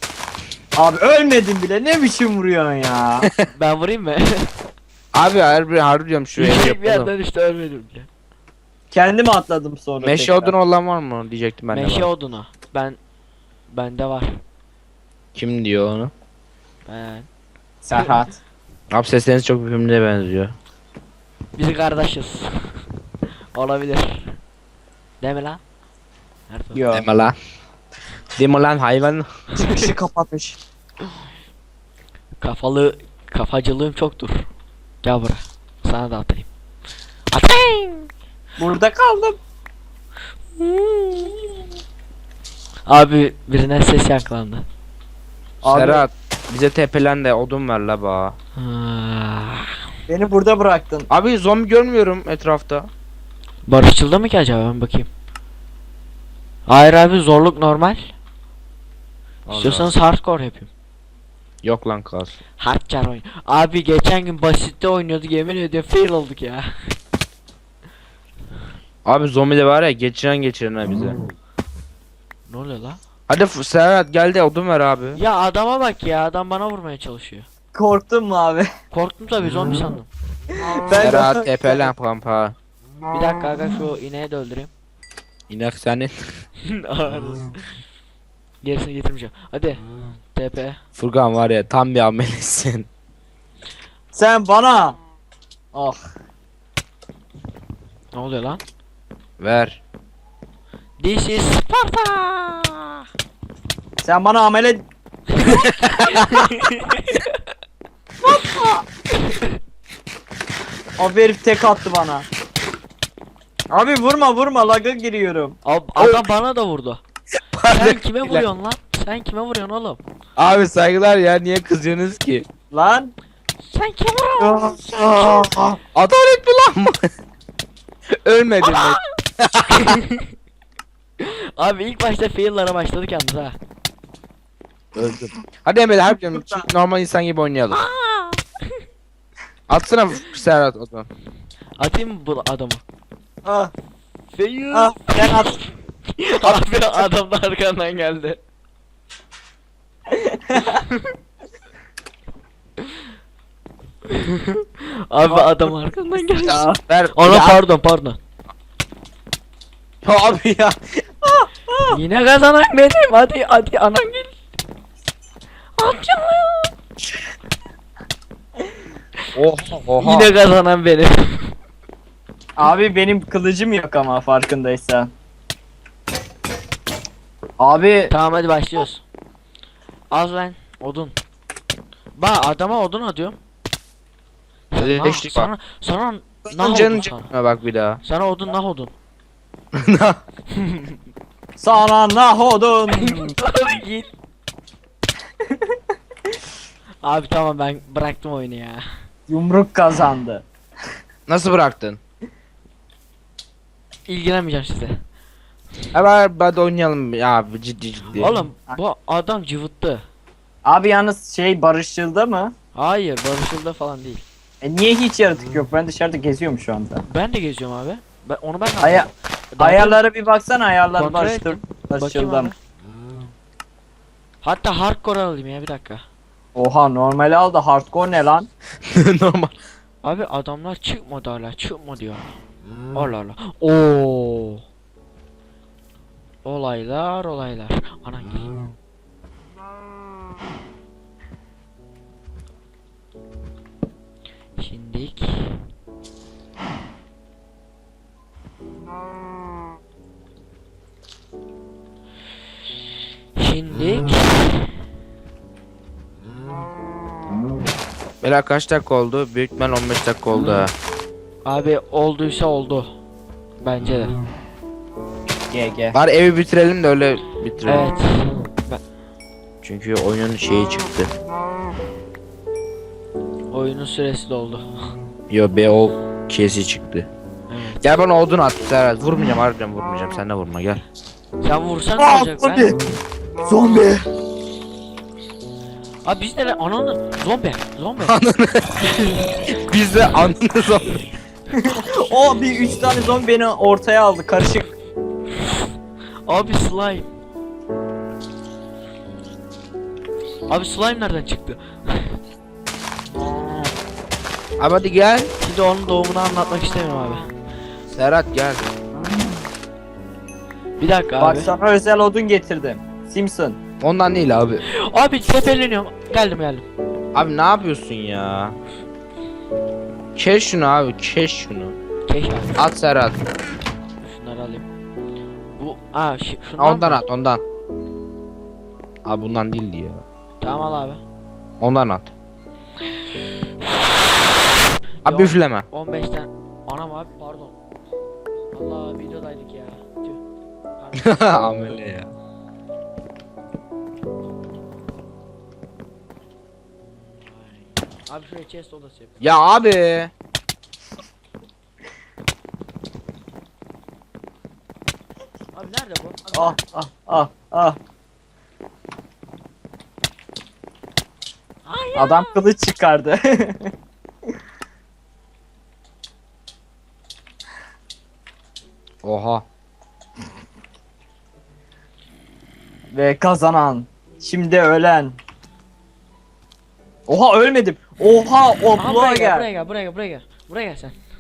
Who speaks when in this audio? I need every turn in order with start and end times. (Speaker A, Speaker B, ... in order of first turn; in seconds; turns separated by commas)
Speaker A: 0.8-3.3, Speaker B: 3.5-4.5, Speaker C: 5.1-7.1, Speaker B: 6.4-8.1, Speaker A: 8.9-10.6, Speaker C: 10.0-12.1, Speaker B: 11.7-13.0, Speaker B: 13.7-14.4, Speaker C: 15.3-16.1, Speaker B: 16.9-17.3, Speaker A: 17.8-18.4, Speaker C: 18.9-20.5, Speaker B: 21.6-22.8, Speaker B: 23.5-24.4, Speaker B: 25.2-25.6, Speaker B: 26.5-26.8, Speaker A: 26.7-27.1, Speaker C: 26.9-27.4, Speaker C: 28.4-29.3, Speaker A: 29.6-30.6, Speaker B: 32.4-34.5, Speaker B: 35.0-36.5, Speaker B: 37.3-38.1, Speaker A: 38.6-39.4, Speaker B: 40.6-41.5, Speaker B: 42.9-44.7, Speaker A: 45.6-46.0, Speaker C: 45.6-48.4, Speaker B: 48.6-49.7, Speaker A: 50.1-51.1, Speaker C: 51.1-52.9, Speaker B: 53.7-55.1, Speaker B: 56.7-58.1, Speaker C: 59.5-59.9, Speaker B: 59.5-60.7, Speaker C: 61.6-62.4, Speaker B: 62.6-67.0, Speaker C: 69.0-71.2, Speaker B: 72.5-73.0, Speaker C: 73.3-75.2, Speaker B: 75.2-77.5, Speaker A: 77.7-78.7, Speaker B: 78.9-80.1, Speaker A: 80.7-81.9, Speaker C: 81.0-82.6, Speaker B: 83.1-84.7, Speaker C: 85.5-86.1, Speaker B: 86.7-87.5, Speaker B: 88.6-89.8, Speaker B: 90.3-90.8, Speaker C: 91.0-92.9, Speaker A: 94.1-95.0, Speaker A: 95.7-96.0, Speaker B: 98.1-98.6, Speaker C: 99.4-99.8, Speaker B: 101.0-103.0, Speaker A: 104.0-104.8, Speaker B: 105.4-107.3, Speaker C: 105.9-106.2, Speaker A: 108.2-108.8, Speaker B: 109.2-109.6, Speaker A: 111.0-112.3, Speaker A: 113.7-115.6, Speaker B: 115.7-117.0, Speaker C: 116.0-116.3, Speaker C: 117.6-118.5, Speaker B: 117.7-120.0, Speaker C: 120.4-122.5, Speaker A: 122.7-123.1, Speaker B: 123.6-125.5, Speaker A: 124.4-125.7, Speaker C: 125.8-127.0, Speaker C: 128.1-130.0, Speaker B: 129.7-130.2, Speaker B: 131.2-133.6, Speaker C: 134.9-137.8, Speaker A: 136.3-136.7, Speaker B: 137.7-138.7, Speaker C: 139.7-141.1, Speaker B: 141.8-142.8, Speaker A: 143.4-143.7, Speaker B: 144.3-148.4, Speaker A: 144.7-145.6, Speaker A: 150.1-150.8, Speaker B: 154.1-158.2, Speaker A: 155.3-155.7, Speaker C: 156.3-157.6, Speaker A: 156.5-156.8, Speaker C: 160.0-160.8, Speaker A: 161.3-162.0, Speaker B: 161.9-164.3, Speaker B: 165.8-166.7, Speaker C: 169.3-170.3, Speaker B: 170.0-171.5, Speaker A: 172.6-175.1, Speaker A: 177.6-178.1, Speaker B: 178.1-179.0, Speaker B: 180.1-181.1, Speaker B: 182.2-183.4, Speaker B: 184.7-187.3, Speaker C: 184.8-185.5, Speaker C: 186.5-188.0, Speaker B: 188.0-188.9, Speaker C: 189.8-190.2, Speaker B: 190.6-190.9, Speaker A: 191.6-193.4, Speaker B: 192.9-194.1, Speaker B: 197.0-198.8, Speaker A: 199.3-200.4, Speaker C: 201.3-202.0, Speaker B: 204.1-205.0, Speaker C: 205.9-208.3, Speaker B: 208.2-210.1, Speaker A: 210.7-212.5, Speaker B: 212.7-214.2, Speaker A: 214.6-217.0, Speaker B: 217.1-220.0, Speaker A: 218.8-222.5, Speaker B: 220.9-222.6, Speaker B: 224.4-226.0, Speaker A: 226.6-228.5, Speaker C: 228.9-229.5, Speaker B: 230.0-232.3, Speaker B: 232.9-234.6, Speaker B: 236.4-238.5, Speaker B: 244.6-245.6, Speaker B: 253.4-254.7, Speaker C: 258.2-260.7, Speaker B: 261.4-262.9, Speaker B: 263.6-264.2, Speaker A: 265.5-266.0, Speaker C: 265.9-267.9, Speaker B: 267.6-268.8, Speaker C: 269.6-271.1, Speaker B: 273.5-274.9, Speaker C: 275.3-277.1, Speaker B: 277.5-277.8, Speaker C: 277.8-280.8, Speaker B: 281.4-282.7, Speaker A: 282.0-282.8, Speaker A: 283.4-284.1, Speaker B: 286.0-288.1, Speaker C: 288.0-288.8, Speaker B: 288.8-289.3, Speaker C: 289.5-291.0, Speaker A: 291.6-294.7, Speaker B: 296.3-297.1, Speaker B: 300.5-302.2, Speaker A: 303.1-303.7, Speaker C: 304.6-305.3, Speaker B: 305.4-307.3, Speaker C: 307.9-308.7, Speaker B: 310.8-311.5, Speaker A: 311.2-313.6, Speaker C: 313.8-314.6, Speaker B: 314.7-316.7, Speaker C: 317.1-318.6, Speaker C: 320.2-321.8, Speaker B: 322.1-322.6, Speaker C: 322.6-323.2, Speaker B: 324.0-324.7, Speaker B: 325.5-327.0, Speaker C: 326.6-327.4, Speaker C: 329.1-330.0, Speaker B: 330.4-331.0, Speaker C: 331.6-332.1, Speaker B: 335.0-337.5, Speaker C: 335.1-335.7, Speaker B: 338.5-340.2, Speaker B: 340.8-341.8, Speaker C: 340.9-342.1, Speaker B: 346.9-349.3, Speaker C: 349.2-350.1, Speaker B: 355.5-356.6, Speaker A: 356.3-357.8, Speaker B: 361.7-362.4, Speaker A: 361.9-363.7, Speaker C: 369.0-369.5, Speaker A: 372.9-375.2, Speaker A: 377.1-379.5, Speaker B: 378.8-381.0